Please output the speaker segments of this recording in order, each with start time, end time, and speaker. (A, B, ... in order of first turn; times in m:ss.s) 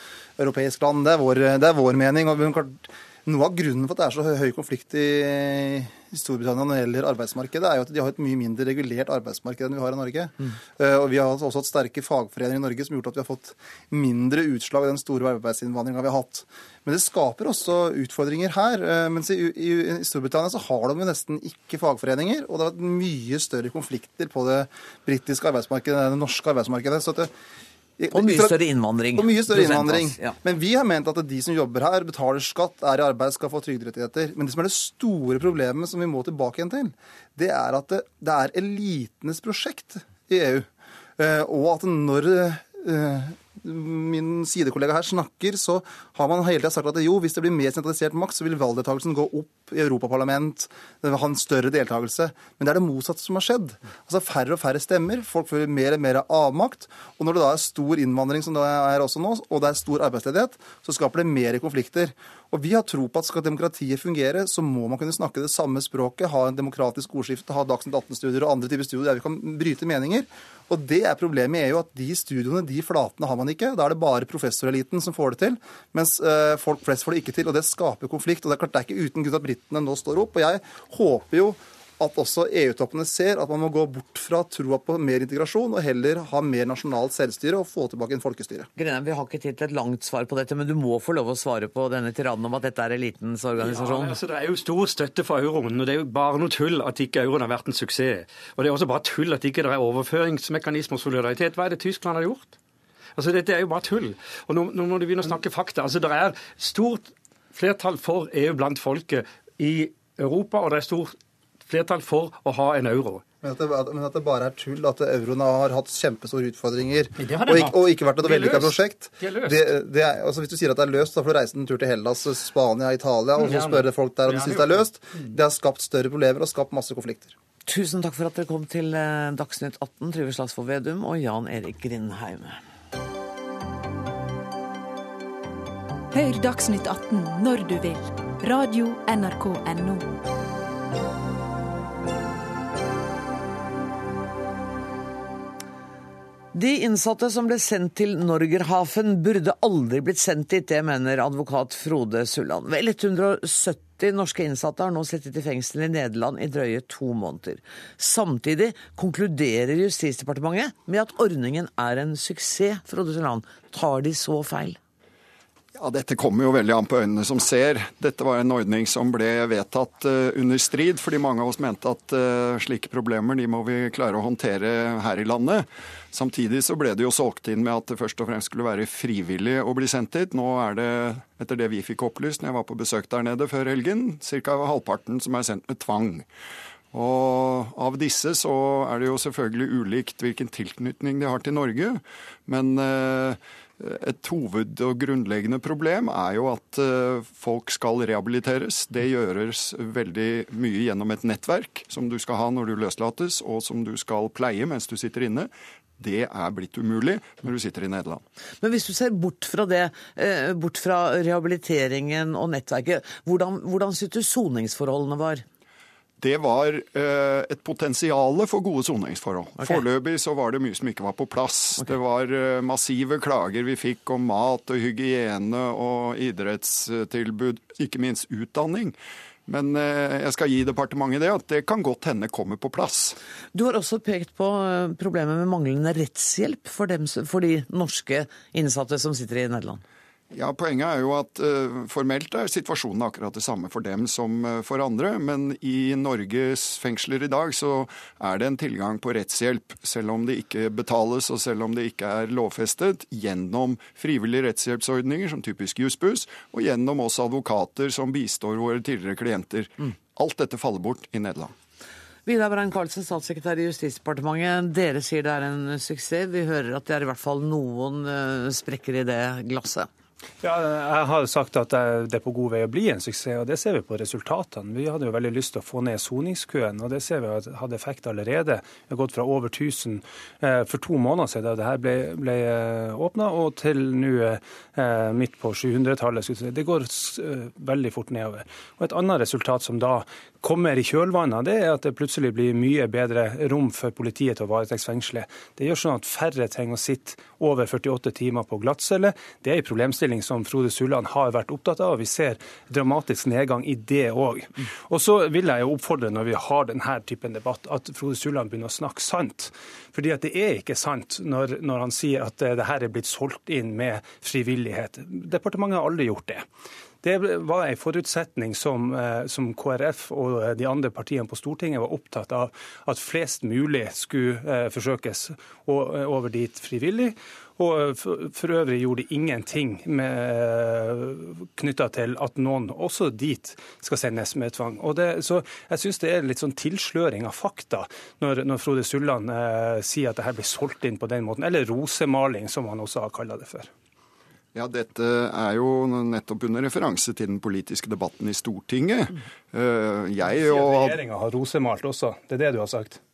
0:00.4-0:27.3 A
0:28.0-0:28.6 A
0:28.1-0:30.4 B
0:29.2-1:28.7 A
1:28.8-1:34.2 B
1:33.6-1:42.6 C
1:43.2-1:51.2 C
1:51.7-1:53.2 C
1:53.4-2:07.3 A
1:57.2-1:59.6 C
2:03.5-2:04.7 C
2:07.7-2:12.6 B
2:16.1-2:20.1 D
2:26.5-2:44.8 B
2:45.8-3:06.3 E
3:06.9-3:28.2 E
3:28.6-3:35.4 B
3:36.2-3:49.0 E
3:49.5-3:53.2 E
3:53.5-3:59.8 B
4:00.3-4:21.5 E
4:22.3-4:29.9 B
4:30.4-5:16.4 F
5:17.0-5:43.7 F
5:44.5-5:51.0 E
5:50.2-5:53.0 F